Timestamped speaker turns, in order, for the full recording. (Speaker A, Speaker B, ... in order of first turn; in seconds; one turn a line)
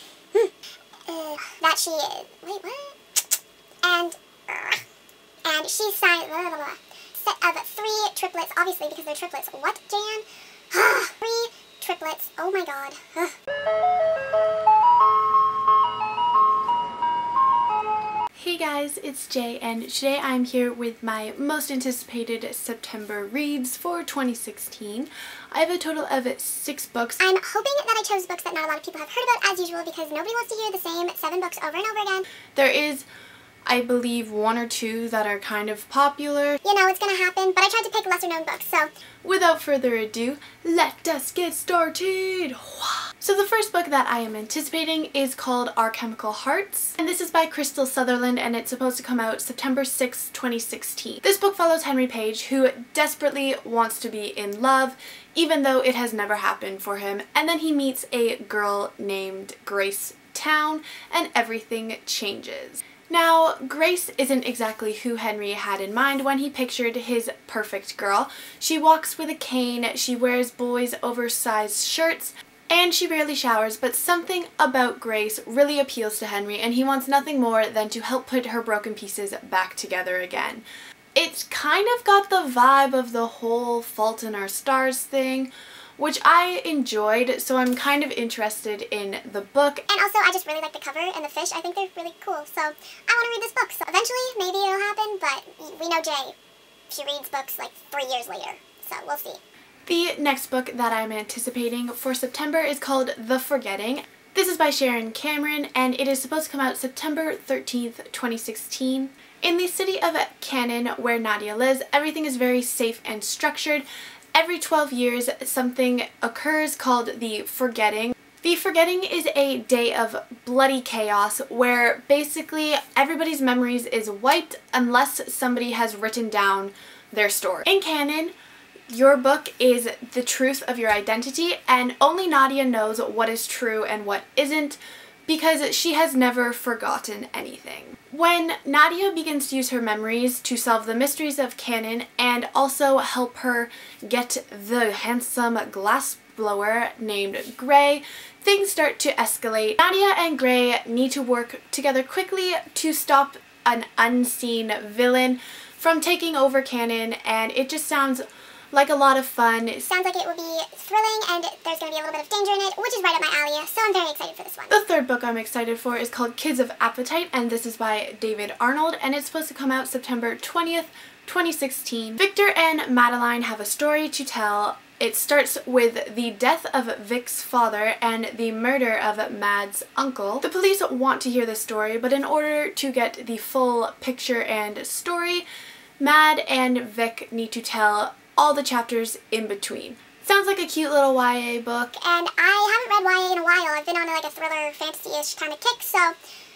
Speaker A: 1.1-4.8
Speaker A: 5.4-13.3
Speaker B: 18.3-27.2
Speaker A: 27.2-32.2
Speaker B: 32.5-33.1
Speaker B: 33.7-36.6
Speaker A: 36.6-38.9
Speaker B: 39.2-89.8
Speaker A: 89.9-96.3
Speaker A: 96.9-99.4
Speaker B: 99.9-128.3
Speaker B: 128.9-159.9
Speaker A: 159.8-164.8
Speaker B: 164.7-185.5
Speaker B: 186.0-191.9
Speaker A: 191.9-196.2